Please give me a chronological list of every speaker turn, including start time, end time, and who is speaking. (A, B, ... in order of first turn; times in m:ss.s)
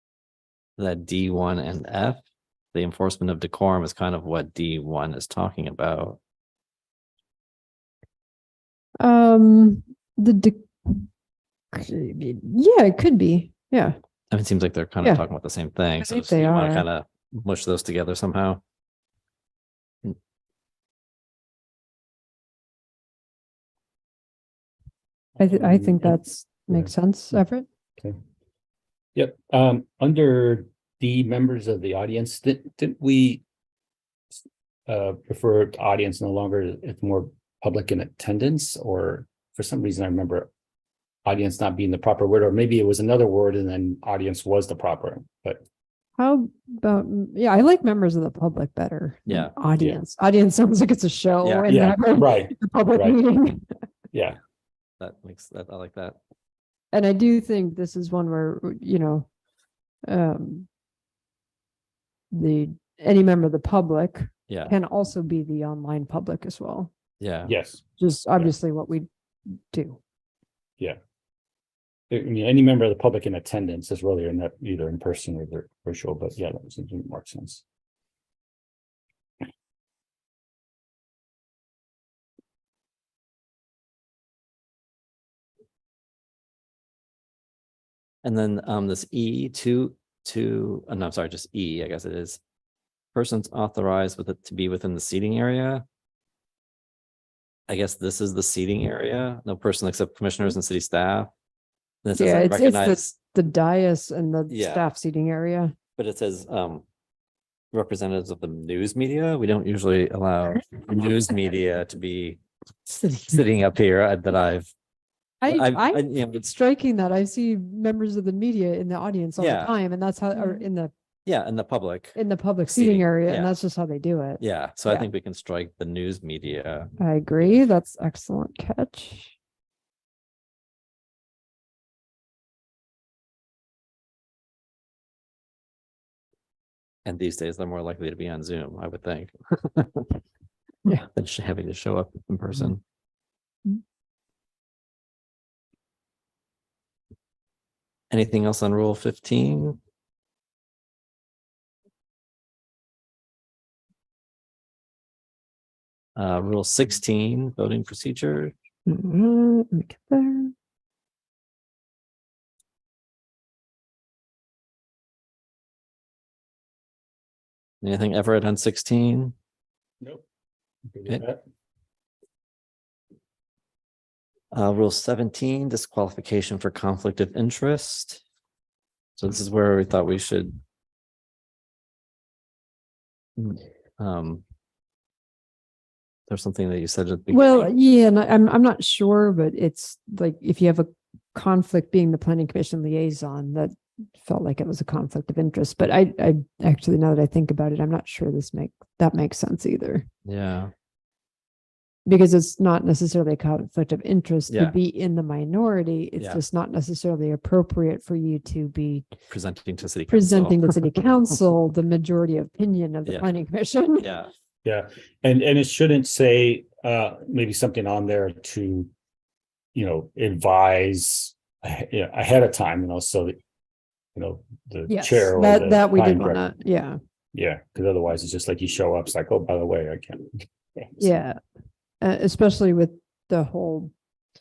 0:00.8-0:02.2 A
0:02.7-0:06.2 A
0:09.0-0:11.1 B
0:11.7-0:14.0 B
0:14.3-0:18.6 A
0:16.0-0:16.8 B
0:25.4-0:26.2 C
0:25.4-0:27.6 B
0:29.1-0:33.4 C
0:34.9-0:40.5 C
0:41.2-0:45.6 C
0:46.2-0:53.7 B
0:49.3-0:49.5 A
0:51.7-0:53.2 C
0:55.0-0:56.2 A
0:56.9-0:59.3 B
1:00.1-1:00.7 B
1:02.3-1:06.9 B
1:04.5-1:04.7 A
1:07.2-1:07.5 A
1:07.4-1:07.8 C
1:08.0-1:10.0 B
1:12.1-1:17.6 C
1:28.2-1:32.4 A
1:33.1-1:35.8 A
1:37.7-1:41.3 A
1:42.0-1:43.0 A
1:42.2-1:45.7 B
1:44.5-1:44.8 A
1:46.0-1:46.8 A
1:47.7-1:54.7 A
1:55.4-2:00.9 B
1:55.5-1:56.5 A
1:59.4-1:59.7 A
2:01.2-2:02.2 A
2:02.2-2:05.1 B
2:02.7-2:03.5 A
2:04.4-2:06.9 A
2:07.0-2:09.3 B
2:17.0-2:20.1 A
2:21.1-2:22.8 A
2:28.1-2:29.8 A
2:36.2-2:38.5 A
2:38.8-2:40.5 B
2:47.8-2:49.3 A
2:50.9-2:51.4 C
2:54.5-2:58.2 A
2:59.2-3:00.6 A
3:03.4-3:04.4 A
3:06.3-3:07.7 A
3:07.3-3:20.1 B
3:20.2-3:20.7 A
3:22.0-3:29.1 B
3:24.5-3:24.8 A
3:29.3-3:30.9 A
3:30.1-3:34.1 B
3:34.0-3:34.3 A
3:34.6-3:38.9 C
3:39.7-3:43.4 C
3:44.2-3:46.4 C
3:44.9-3:47.0 B
3:47.3-3:51.0 C
3:51.0-3:51.4 B
3:52.0-3:53.9 B